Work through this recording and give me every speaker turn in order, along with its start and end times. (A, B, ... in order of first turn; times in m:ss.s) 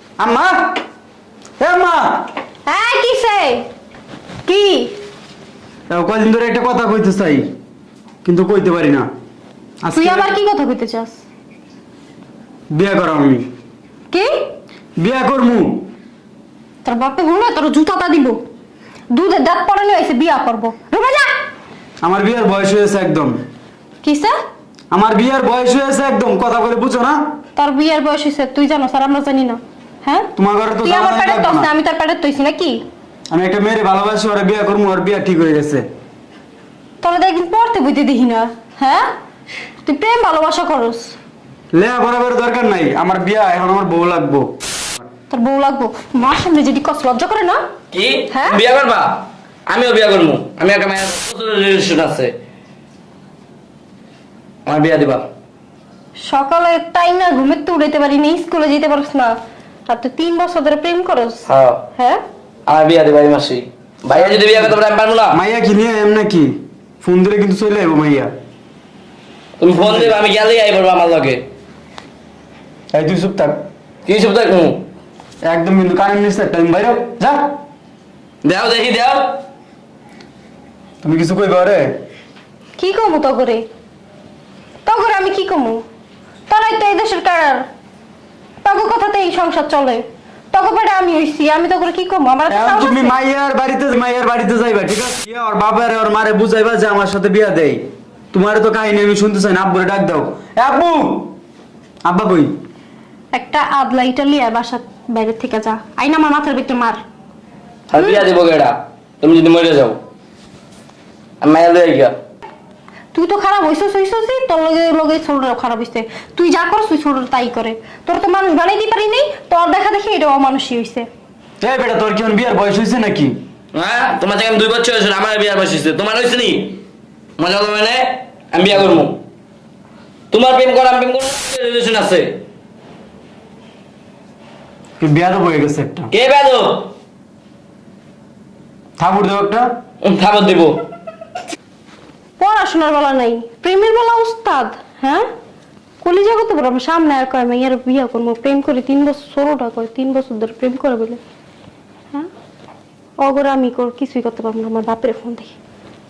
0:00.2-0:00.8 A
0:01.6-0:02.2 A
0:02.6-0:03.7 B
0:04.4-0:04.9 B
0:05.9-0:07.5 A
0:08.2-0:09.1 A
0:09.8-0:10.3 A
0:09.9-0:11.2 B
0:12.7-0:13.5 A
0:14.1-0:14.4 B
0:15.0-0:15.9 A
0:16.8-0:18.4 B
0:19.1-0:21.3 B
0:22.0-0:23.4 A
0:24.0-0:24.3 B
0:24.9-0:27.2 A
0:27.6-0:30.3 B
0:30.4-0:31.7 A
0:30.8-0:32.8 B
0:33.3-0:35.9 A
0:37.0-0:39.1 B
0:39.8-0:41.1 B
0:41.7-0:44.5 A
0:45.3-0:47.6 B
0:47.9-0:52.3 C
0:48.3-0:48.6 B
0:54.6-0:55.2 C
0:56.2-0:59.3 B
0:59.9-1:02.2 B
1:01.5-1:01.8 C
1:02.7-1:05.4 C
1:04.1-1:04.7 A
1:05.3-1:08.3 A
1:09.6-1:11.4 C
1:09.7-1:10.2 A
1:12.9-1:13.6 A
1:14.0-1:14.8 C
1:15.4-1:17.5 A
1:18.4-1:19.4 C
1:21.0-1:21.9 A
1:22.8-1:23.6 B
1:24.8-1:25.8 B
1:26.5-1:27.6 B
1:28.6-1:33.2 B
1:32.5-1:41.3 A
1:42.0-1:42.6 A
1:43.3-1:47.0 B
1:47.9-1:50.0 C
1:47.9-1:48.2 B
1:51.4-1:52.1 C
1:53.1-2:01.1 B
2:01.6-2:03.4 A
2:03.7-2:06.8 C
2:07.4-2:09.2 C
2:10.3-2:12.3 C
2:15.0-2:16.1 A
2:16.1-2:16.9 C
2:19.0-2:19.7 A
2:20.0-2:20.8 C
2:22.4-2:25.2 B
2:26.0-2:31.2 B
2:33.2-2:35.5 B